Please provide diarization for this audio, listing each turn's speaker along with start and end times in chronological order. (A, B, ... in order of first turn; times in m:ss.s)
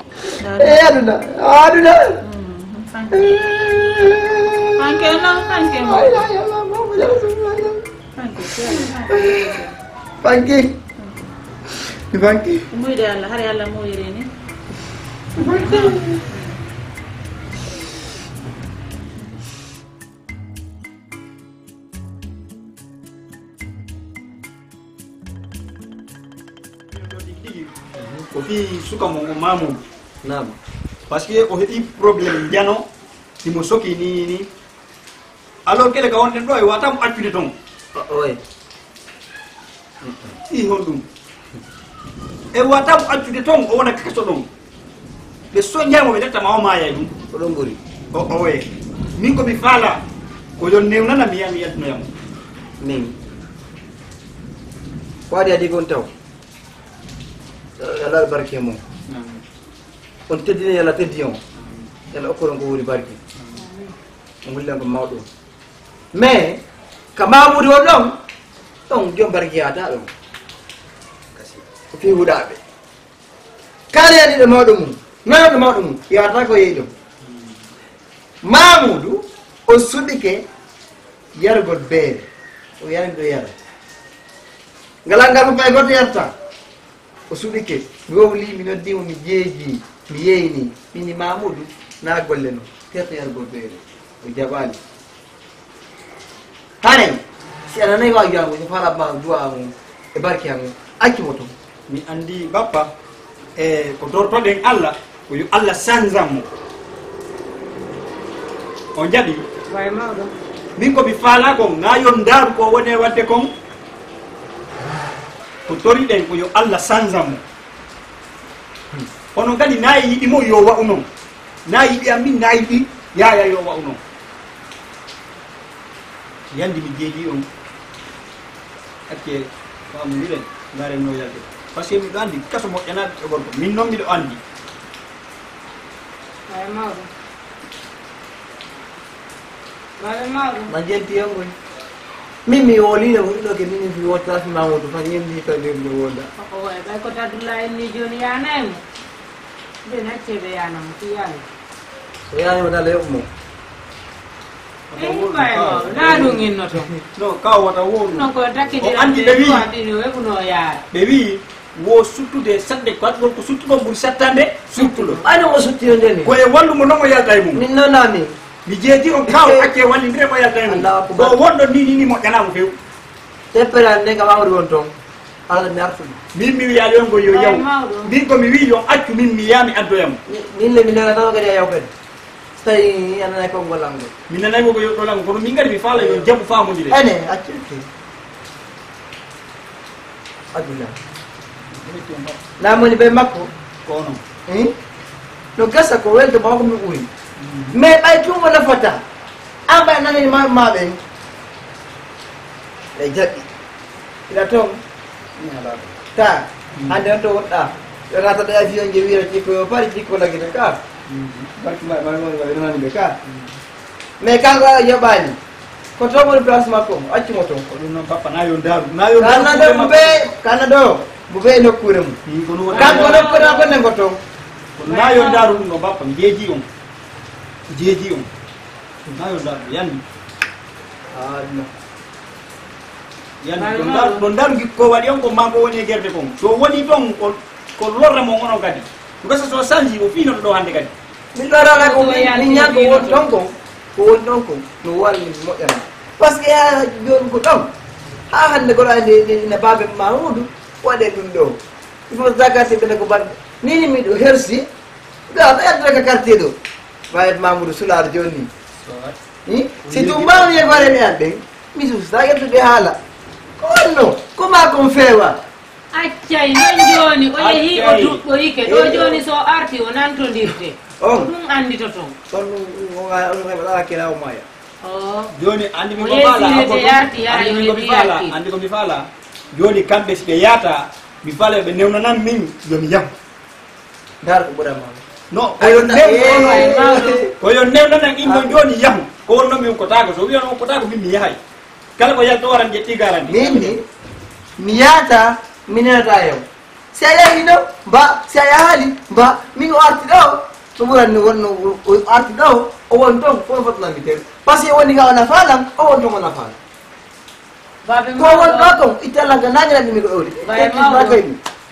0:00.4-0:01.0 A
0:00.6-0:02.2 B
0:02.2-0:04.1 A
0:03.1-0:04.9 B
0:04.8-0:06.3 A
0:05.7-0:07.8 B
0:08.1-0:09.8 A
0:08.7-0:09.4 B
0:10.2-0:10.8 B
0:11.0-0:11.3 A
0:12.1-0:12.7 B
0:12.7-0:14.3 A
0:15.4-0:16.2 B
0:15.4-0:16.6 A
0:26.9-0:29.8 C
0:30.2-0:30.6 B
0:31.1-0:32.8 C
0:33.4-0:34.5 C
0:35.6-0:37.5 C
0:37.9-0:38.4 B
0:40.0-0:40.3 B
0:40.4-0:41.0 C
0:42.5-0:44.5 C
0:45.5-0:47.1 C
0:47.3-0:47.8 B
0:48.1-0:50.0 C
0:50.6-0:52.1 C
0:52.8-0:53.2 B
0:55.3-0:56.1 B
0:57.8-0:58.8 B
0:59.1-0:59.4 C
1:00.3-1:01.4 B
1:01.6-1:01.9 C
1:02.1-1:03.2 B
1:03.4-1:03.6 C
1:03.6-1:03.9 D
1:04.4-1:05.2 B
1:06.1-1:06.6 B
1:07.2-1:08.1 B
1:08.9-1:10.1 B
1:11.3-1:11.6 C
1:11.9-1:12.6 B
1:13.9-1:16.9 B
1:17.2-1:17.5 C
1:18.4-1:20.4 B
1:21.3-1:22.3 B
1:22.8-1:23.5 B
1:25.0-1:26.3 B
1:27.3-1:34.8 B
1:36.8-1:41.5 B
1:41.9-1:42.9 C
1:43.6-1:46.5 C
1:48.9-1:49.4 C
1:49.7-1:50.3 D
1:50.8-1:53.5 C
1:55.6-1:57.4 C
1:59.3-2:01.1 C
2:01.6-2:04.0 C
2:06.5-2:07.5 C
2:09.1-2:14.4 C
2:16.5-2:17.1 D
2:20.0-2:20.7 D
2:20.7-2:21.5 B
2:22.4-2:26.3 B
2:26.4-2:28.8 D
2:29.8-2:31.4 D
2:32.3-2:33.3 B
2:34.9-2:36.4 C
2:35.0-2:36.9 D
2:37.2-2:39.7 C
2:38.1-2:40.8 D
2:40.9-2:45.2 C
2:45.2-2:46.3 B
2:46.2-2:47.6 C
2:47.5-2:48.3 B
2:48.6-2:52.8 C
2:49.3-2:49.7 B
2:50.6-2:51.4 B
2:53.5-2:54.9 B
2:55.5-2:56.2 B
2:56.3-3:00.2 C
2:57.3-2:58.1 D
3:00.3-3:01.9 B
3:02.6-3:04.1 B
3:04.3-3:07.0 C
3:05.9-3:06.3 B
3:06.9-3:07.8 B
3:10.5-3:10.9 B
3:11.7-3:12.4 C
3:12.6-3:13.5 B
3:13.8-3:14.2 C
3:14.5-3:14.7 B
3:15.6-3:17.1 B
3:17.4-3:17.8 C
3:17.7-3:19.0 B
3:19.7-3:21.0 B
3:23.0-3:23.5 B
3:24.3-3:24.8 B
3:25.4-3:26.0 C
3:26.1-3:30.8 B
3:26.7-3:27.0 C
3:31.1-3:31.5 C
3:31.6-3:33.2 B
3:33.2-3:33.6 C
3:34.2-3:35.4 B
3:36.0-3:37.6 B
3:37.7-3:40.2 C
3:39.2-3:42.2 B
3:42.2-3:43.3 C
3:42.7-3:43.8 D
3:42.7-3:44.2 B
3:44.8-3:46.6 C
3:44.8-3:45.6 D
3:47.7-3:48.3 C
3:49.1-3:50.0 C
3:51.1-3:51.7 B
3:53.4-4:00.9 C
3:53.6-3:54.2 D
4:01.3-4:07.7 B
4:01.7-4:03.2 D
4:08.3-4:11.6 B
4:12.1-4:14.6 B
4:15.3-4:16.6 B
4:17.1-4:18.5 B
4:18.8-4:19.1 C
4:19.4-4:23.0 B
4:19.8-4:21.0 C
4:23.6-4:25.4 B
4:25.9-4:32.1 D
4:27.3-4:28.2 C
4:28.6-4:29.2 B
4:31.0-4:31.3 B
4:32.3-4:34.4 B
4:34.8-4:35.3 D
4:35.3-4:43.1 C
4:36.0-4:38.3 D
4:44.2-4:45.0 B
4:45.3-4:46.8 C
4:45.6-4:47.3 B
4:46.2-4:47.2 D
4:47.4-4:51.4 C
4:48.2-4:48.5 B
4:52.0-4:53.8 C
4:53.3-4:53.8 B
4:54.6-5:06.6 B
5:07.8-5:08.8 D
5:08.2-5:11.4 B
5:10.4-5:11.2 D